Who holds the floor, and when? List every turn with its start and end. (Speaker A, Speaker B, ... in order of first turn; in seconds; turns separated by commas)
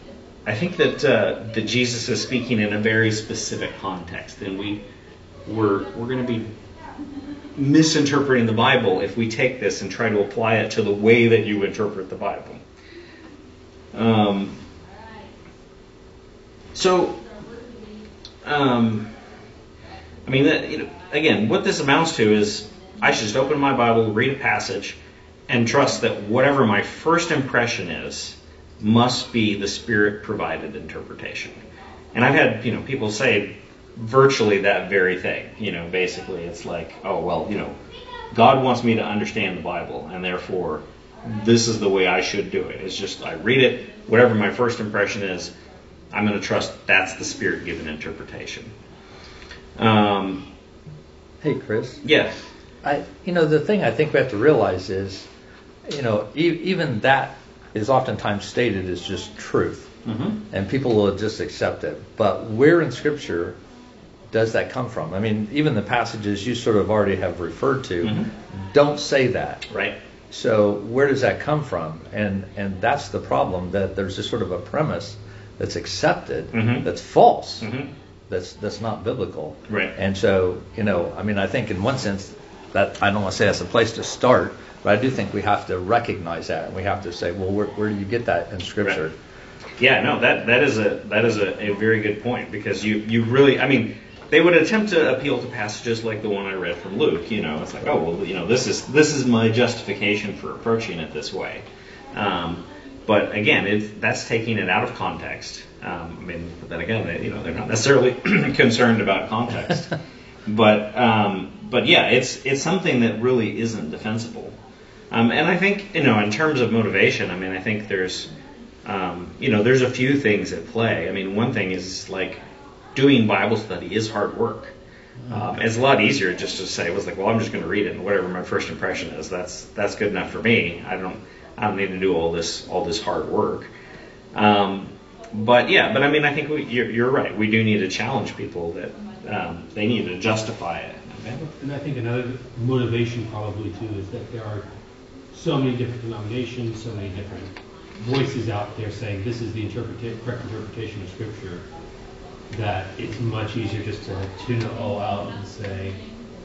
Speaker A: 0.5-4.8, Speaker A: 5.5-6.5, Speaker A: 7.5-12.6, Speaker A: 13.9-14.6, Speaker A: 16.7-17.2, Speaker A: 18.4-19.1, Speaker A: 20.2-25.0, Speaker A: 25.5-31.6, Speaker A: 32.1-37.8, Speaker A: 38.3-45.5, Speaker A: 46.1-48.7, Speaker A: 49.8-50.5, Speaker B: 51.4-52.0, Speaker A: 52.0-52.4, Speaker B: 52.8-55.3, Speaker B: 55.8-59.9, Speaker A: 60.0-60.4, Speaker B: 60.5-63.5, Speaker B: 64.3-69.6, Speaker A: 68.0-68.3, Speaker A: 69.7-69.9, Speaker B: 70.3-77.7, Speaker A: 76.5-76.8, Speaker A: 77.6-77.9, Speaker B: 78.3-89.1, Speaker A: 79.7-79.9, Speaker A: 89.8-109.9, Speaker A: 110.5-114.5, Speaker A: 115.1-118.3, Speaker A: 118.8-122.4, Speaker A: 122.9-124.7, Speaker A: 125.3-133.7, Speaker A: 134.3-141.5, Speaker C: 141.6-144.6, Speaker C: 145.3-151.6, Speaker C: 152.5-156.0